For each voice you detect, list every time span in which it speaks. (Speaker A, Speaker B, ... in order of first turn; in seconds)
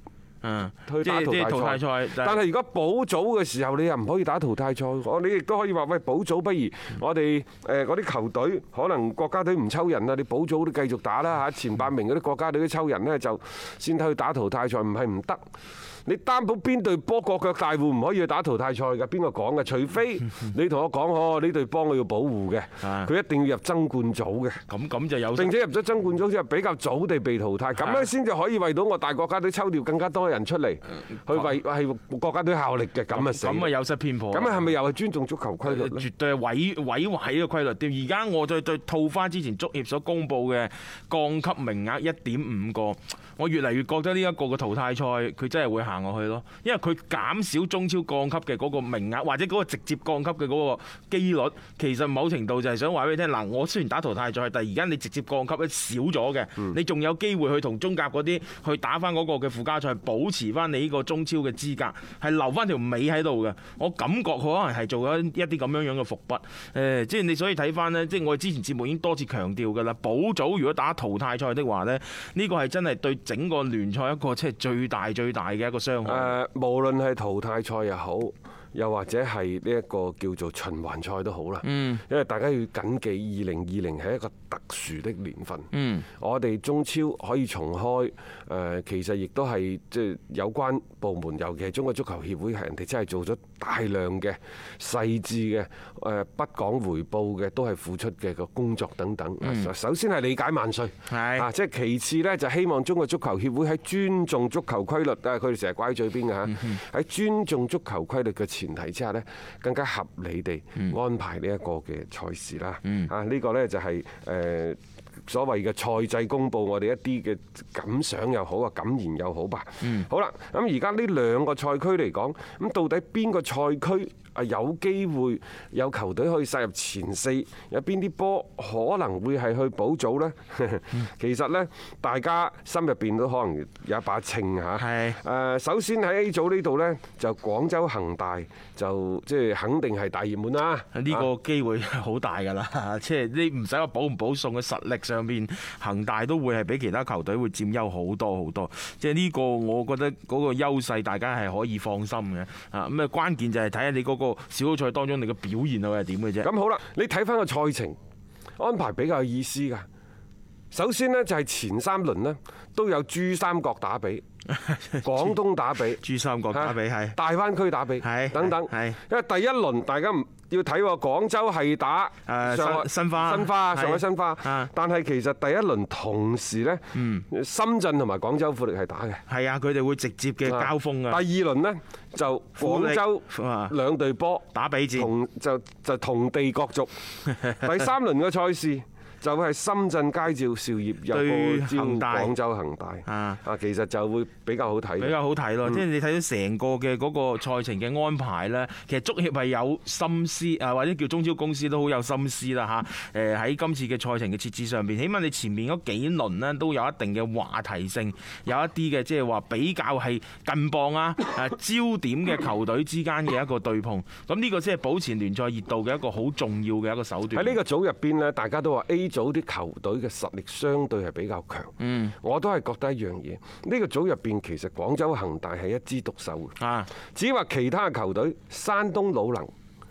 Speaker A: 0.4-2.4, 22.8-23.1, 24.7-25.6, 27.8-28.1, 33.1-34.7, 35.6-76.3, 81.6-82.0, 85.7-86.0, 99.4-99.7, 101.1-101.5, 106.5-106.7, 112.8-113.1, 134.8-135.2, 140.9-156.5, 164.5-165.3, 166.0-167.2, 168.0-169.0, 172.2-174.7, 176.9-177.2, 179.3-181.2, 182.6-183.7, 184.5-185.1, 187.3-187.6, 191.1-192.3, 193.1-193.4, 195.0-217.6, 221.8-222.1, 226.6-226.9
Speaker B: 0.8-15.4, 16.1-24.6, 25.3-33.7, 34.3-36.1, 76.0-85.7, 86.2-141.3, 156.4-158.0, 158.6-159.9, 160.7-164.2, 165.0-166.0, 166.5-179.2, 180.4-186.9, 187.6-195.8, 217.3-226.6, 227.1-229.5